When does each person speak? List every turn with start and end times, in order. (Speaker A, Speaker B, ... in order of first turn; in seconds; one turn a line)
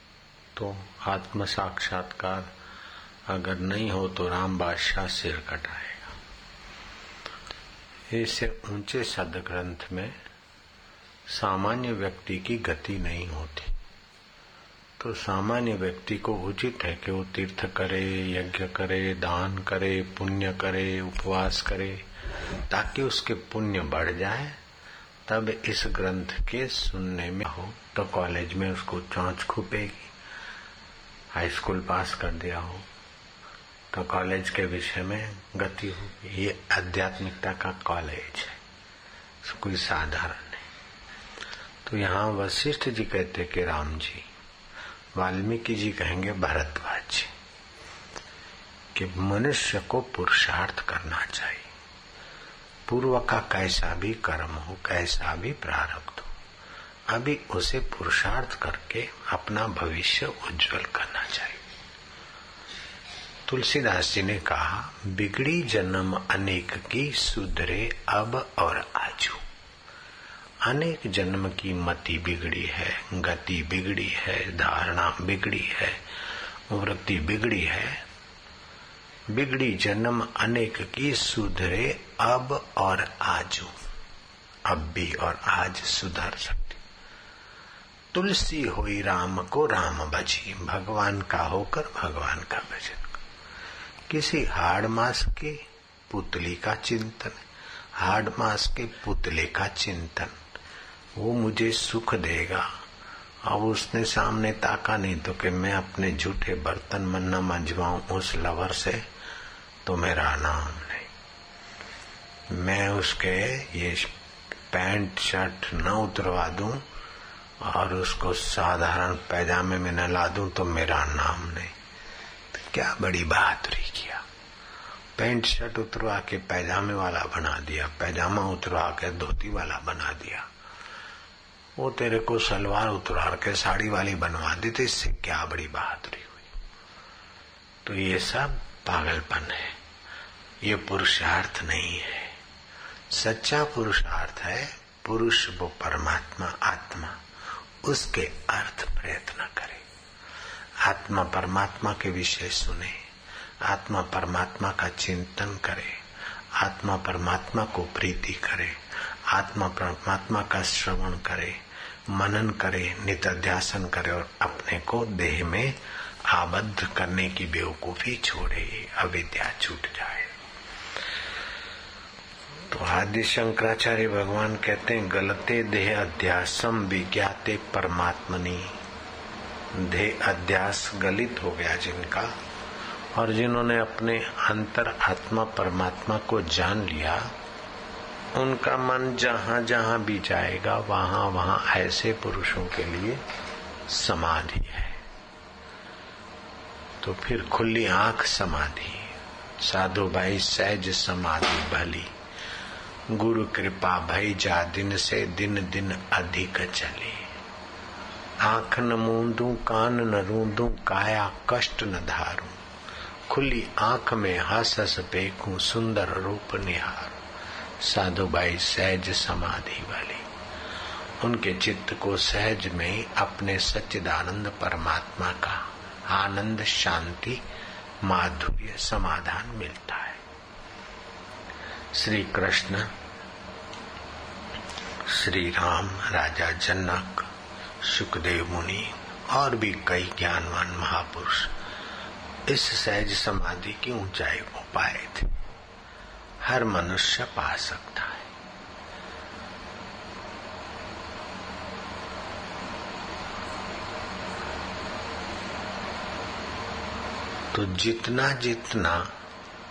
Speaker A: 0.5-2.5
Speaker A: 3.3-6.1
Speaker A: 8.1-10.2
Speaker A: 11.3-13.8
Speaker A: 15.0-22.1
Speaker A: 22.7-24.6
Speaker A: 25.3-30.1
Speaker A: 31.3-32.9
Speaker A: 33.9-38.6
Speaker A: 39.4-40.6
Speaker A: 41.9-44.3
Speaker A: 45.1-47.3
Speaker A: 48.9-51.7
Speaker A: 52.9-56.3
Speaker A: 57.1-61.6
Speaker A: 63.5-69.4
Speaker A: 70.6-76.0
Speaker A: 76.7-78.0
Speaker A: 79.3-83.8
Speaker A: 84.7-86.8
Speaker A: 88.1-93.2
Speaker A: 94.1-97.4
Speaker A: 98.0-100.4
Speaker A: 101.2-102.7
Speaker A: 103.5-109.1
Speaker A: 109.8-111.1
Speaker A: 112.5-114.1
Speaker A: 114.7-116.8
Speaker A: 117.6-121.7
Speaker A: 122.5-124.2
Speaker A: 125.2-130.5
Speaker A: 131.8-136.5
Speaker A: 137.8-139.8
Speaker A: 140.6-142.3
Speaker A: 143.1-147.2
Speaker A: 147.8-149.8
Speaker A: 150.8-153.0
Speaker A: 153.6-156.0
Speaker A: 156.6-158.8
Speaker A: 159.3-161.6
Speaker A: 162.1-165.8
Speaker A: 166.3-170.3
Speaker A: 172.7-178.7
Speaker A: 179.7-182.3
Speaker A: 183.1-187.2
Speaker A: 188.3-193.2
Speaker A: 193.9-195.0
Speaker A: 197.0-202.1
Speaker A: 203.1-207.3
Speaker A: 208.4-212.6
Speaker A: 213.3-217.2
Speaker A: 217.8-220.3
Speaker A: 221.2-227.4
Speaker A: 228.0-230.2
Speaker A: 231.9-232.9
Speaker A: 235.1-237.3
Speaker A: 237.8-241.5
Speaker A: 242.5-245.3
Speaker A: 246.4-248.3
Speaker A: 257.5-259.1